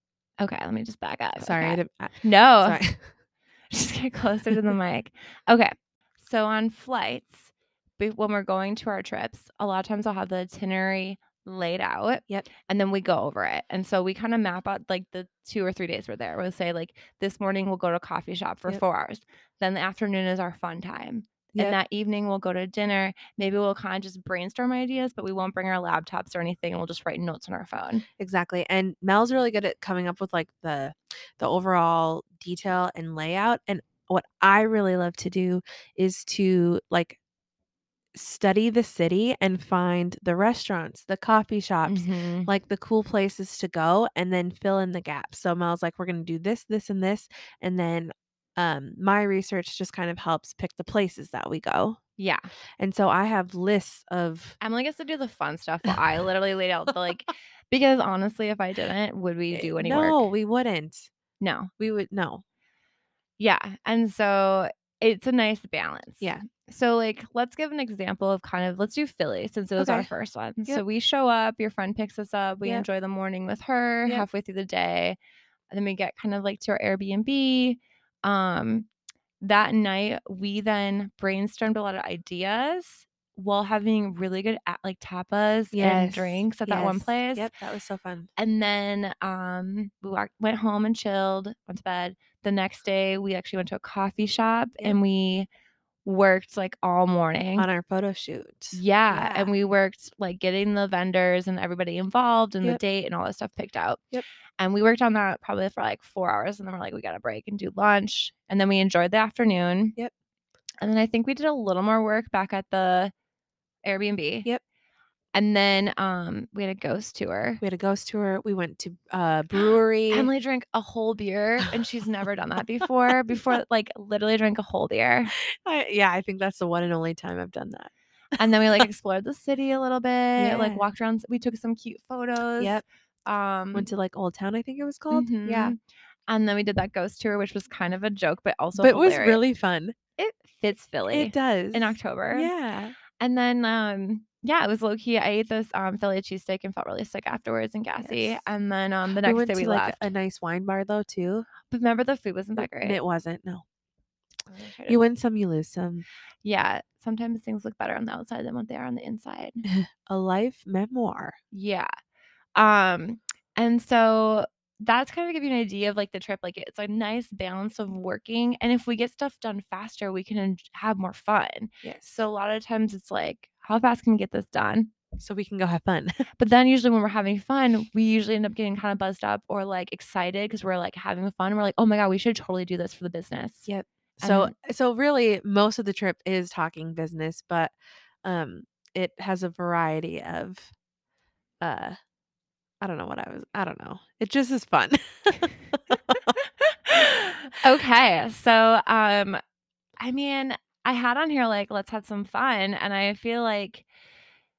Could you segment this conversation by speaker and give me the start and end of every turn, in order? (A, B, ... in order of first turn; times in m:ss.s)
0:00.4-0:02.8 A
0:01.4-0:03.1 B
0:03.7-0:28.0 A
0:28.2-0:37.2 B
0:38.1-0:52.0 B
0:41.8-0:42.5 A
0:52.2-0:52.5 A
0:52.8-0:54.6 B
0:54.6-1:00.3 A
0:59.5-1:01.1 B
1:01.4-1:01.7 A
1:01.8-1:02.4 B
1:03.4-1:15.2 A
1:09.8-1:10.1 B
1:15.7-1:18.9 A
1:19.4-1:27.5 A
1:25.7-1:28.3 B
1:28.4-1:35.5 A
1:36.0-1:37.7 A
1:37.6-1:39.5 B
1:38.7-1:44.0 A
1:44.6-1:50.0 A
1:50.8-1:53.1 A
1:53.8-1:54.5 A
1:55.3-1:57.6 A
1:57.6-2:00.3 B
2:00.1-2:05.3 A
2:05.6-2:07.9 B
2:08.4-2:13.9 A
2:10.4-2:10.8 B
2:12.6-2:12.8 B
2:13.7-2:15.7 B
2:15.1-2:15.8 A
2:16.3-2:19.4 A
2:18.7-2:19.9 B
2:20.2-2:22.5 A
2:21.1-2:22.9 B
2:23.2-2:30.1 A
2:29.2-2:31.5 B
2:31.7-2:33.0 A
2:32.6-2:33.6 B
2:34.5-2:35.0 A
2:34.9-2:36.0 B
2:36.4-2:39.6 A
2:40.1-2:41.3 B
2:41.5-2:41.9 A
2:42.6-2:54.9 A
2:51.8-2:52.2 B
2:55.2-2:56.1 B
2:56.4-3:03.7 A
3:03.7-3:10.7 B
3:04.2-3:04.5 A
3:11.6-3:12.0 B
3:12.8-3:16.4 B
3:16.9-3:19.4 A
3:20.0-3:23.8 A